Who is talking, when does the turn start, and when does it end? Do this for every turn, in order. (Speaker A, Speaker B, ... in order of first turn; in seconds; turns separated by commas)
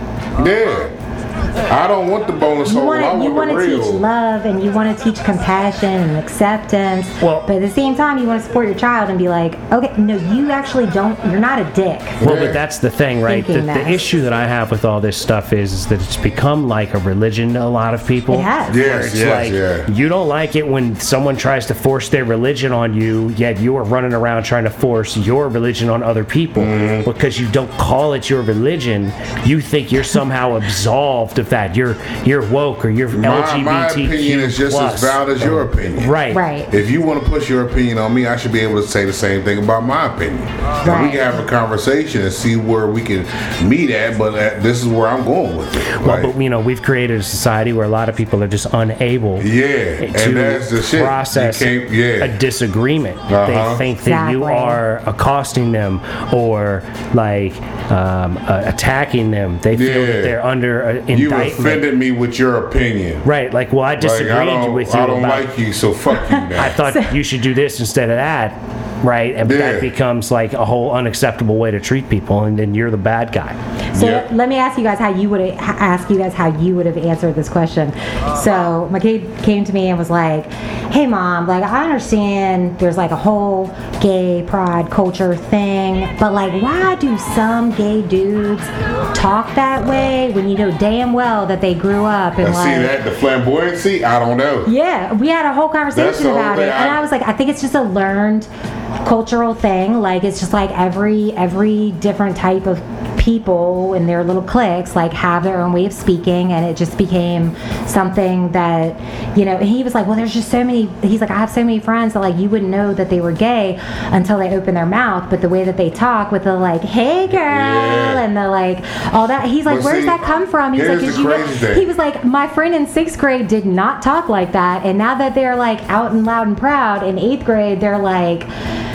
Speaker A: 0.4-0.9, Speaker A: 1.7-4.0, Speaker B: 2.6-12.2, Speaker C: 7.2-7.5, Speaker A: 12.2-12.6, Speaker C: 12.2-36.4, Speaker B: 13.3-14.0, Speaker B: 18.3-18.8, Speaker A: 18.7-19.9, Speaker A: 26.6-27.1, Speaker A: 33.1-36.2, Speaker B: 36.3-36.7, Speaker A: 36.7-46.3, Speaker B: 40.8-41.3, Speaker C: 45.9-49.5, Speaker A: 49.4-52.4, Speaker C: 50.0-61.8, Speaker A: 53.3-53.8, Speaker B: 54.0-54.8, Speaker A: 59.7-60.4, Speaker A: 61.1-63.2, Speaker C: 63.2-65.5, Speaker A: 64.0-66.8, Speaker B: 66.3-67.1, Speaker C: 66.5-73.6, Speaker A: 69.5-69.9, Speaker B: 73.9-92.9, Speaker A: 74.0-74.3, Speaker A: 92.4-94.7, Speaker B: 94.7-98.5, Speaker A: 95.9-97.0, Speaker B: 99.0-128.5, Speaker A: 117.3-118.2, Speaker A: 119.7-120.2, Speaker A: 120.7-121.9